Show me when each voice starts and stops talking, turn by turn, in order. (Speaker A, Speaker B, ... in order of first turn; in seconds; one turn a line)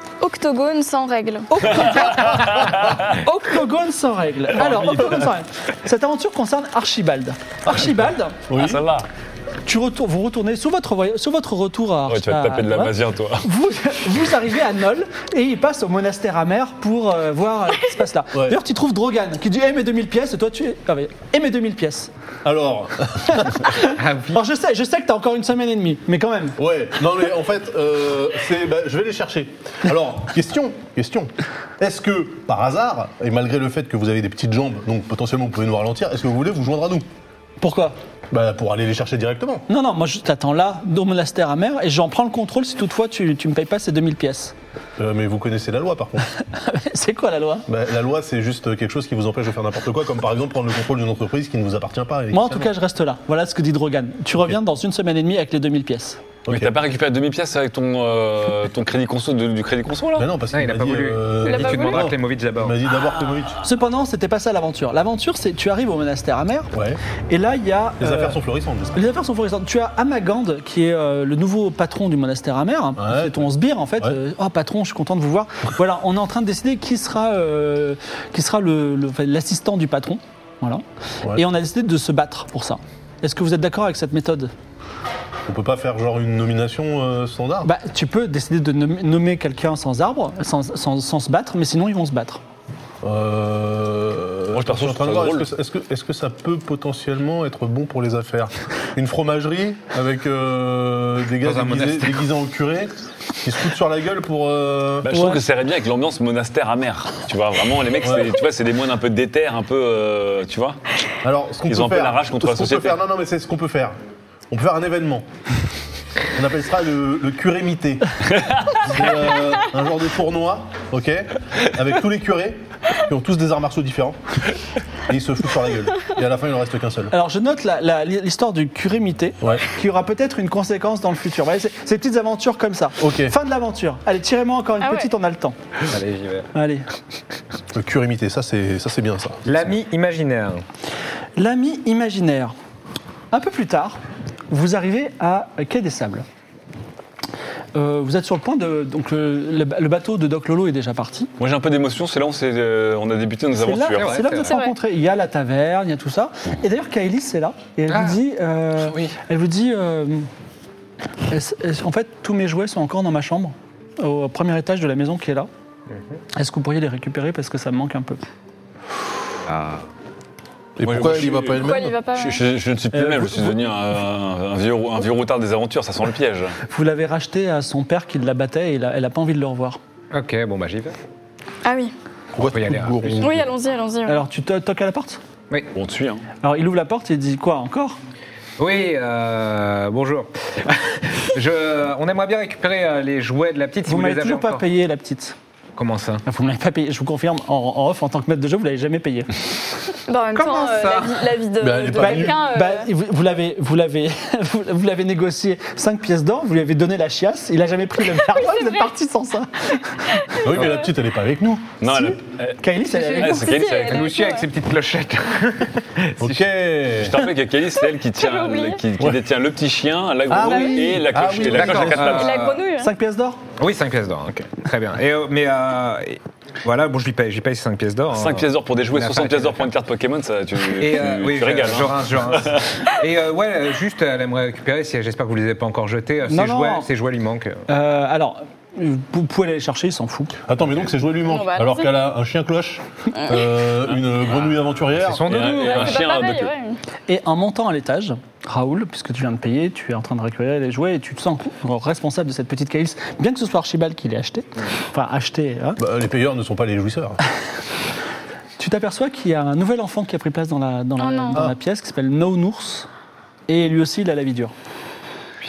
Speaker A: 0.2-2.1
Speaker B: 1.5-2.5
Speaker C: 2.3-3.1
Speaker B: 3.1-8.4
Speaker C: 4.6-5.3
Speaker D: 7.7-7.9
Speaker D: 8.5-8.8
Speaker C: 8.6-9.1
Speaker B: 9.7-22.1
Speaker C: 12.1-13.5
Speaker D: 22.4-23.6
Speaker B: 23.3-26.6
Speaker E: 23.9-24.4
Speaker D: 26.6-37.1
Speaker B: 37.6-38.0
Speaker D: 38.3-39.6
Speaker B: 39.7-44.5
Speaker D: 45.0-46.3
Speaker B: 46.4-47.7
Speaker D: 47.7-52.7
Speaker B: 52.3-56.2
Speaker D: 56.5-56.7
Speaker C: 56.5-60.3
Speaker D: 60.2-63.6
Speaker E: 60.5-62.8
Speaker A: 61.4-62.1
Speaker B: 63.6-66.7
Speaker D: 66.7-67.0
Speaker B: 67.3-68.4
Speaker D: 68.0-69.1
Speaker B: 69.0-84.5
Speaker D: 73.0-73.5
Speaker D: 85.5-87.7
Speaker B: 87.6-92.4
Speaker D: 93.0-105.1
Speaker C: 94.5-95.5
Speaker E: 101.4-102.2
Speaker C: 105.0-110.8
Speaker B: 105.1-105.4
Speaker D: 108.0-108.3
Speaker D: 111.2-114.0
Speaker C: 111.7-113.0
Speaker D: 114.5-115.2
Speaker D: 116.3-118.1
Speaker C: 118.3-118.9
Speaker D: 118.8-124.2
Speaker D: 125.1-127.1
Speaker B: 127.1-135.6
Speaker D: 133.0-133.3
Speaker A: 134.8-135.1
Speaker E: 135.9-136.5
Speaker B: 136.6-136.9
Speaker D: 137.7-139.5
Speaker E: 139.5-140.6
Speaker B: 141.4-142.6
Speaker B: 143.3-144.0
Speaker B: 144.5-146.3
Speaker B: 147.8-151.3
Speaker C: 151.4-154.1
Speaker B: 153.6-160.3
Speaker E: 154.0-154.6
Speaker A: 154.4-154.7
Speaker E: 157.9-158.2
Speaker B: 161.3-165.5
Speaker B: 166.4-168.2
Speaker E: 169.5-169.8
Speaker D: 170.8-171.9
Speaker C: 170.8-176.6
Speaker A: 171.6-172.4
Speaker B: 172.9-173.6
Speaker B: 176.7-179.8
Speaker E: 180.1-180.9
Speaker A: 181.7-181.9
Speaker D: 182.3-183.5
Speaker E: 182.4-183.3
Speaker A: 183.2-184.2
Speaker B: 184.1-185.2
Speaker C: 185.8-186.2
Speaker B: 186.4-188.0
Speaker E: 188.6-194.7
Speaker B: 193.8-195.3
Speaker E: 195.8-196.2
Speaker B: 196.3-199.3
Speaker A: 200.1-202.9
Speaker E: 200.3-201.2
Speaker D: 201.6-202.4
Speaker B: 202.0-210.2
Speaker A: 208.2-208.9
Speaker A: 210.2-210.9
Speaker D: 210.4-211.8
Speaker C: 211.8-212.6
Speaker B: 211.8-213.5
Speaker E: 212.9-216.4
Speaker C: 213.2-214.1
Speaker A: 213.4-214.5
Speaker D: 216.2-217.2
Speaker C: 217.0-222.5
Speaker A: 218.1-218.8
Speaker D: 220.3-222.2
Speaker A: 220.4-220.8
Speaker E: 221.5-222.6
Speaker A: 222.1-222.9
Speaker B: 222.8-223.4
Speaker E: 223.6-229.7
Speaker C: 228.1-232.7
Speaker E: 230.7-237.6
Speaker B: 236.3-236.9
Speaker B: 237.7-240.4
Speaker D: 240.5-245.2
Speaker A: 241.2-241.9
Speaker A: 243.2-243.4
Speaker E: 245.0-246.0
Speaker C: 245.2-246.5
Speaker A: 245.5-246.8
Speaker B: 247.1-255.8
Speaker D: 255.8-257.2
Speaker B: 258.6-262.9
Speaker A: 261.0-261.4
Speaker B: 263.5-264.5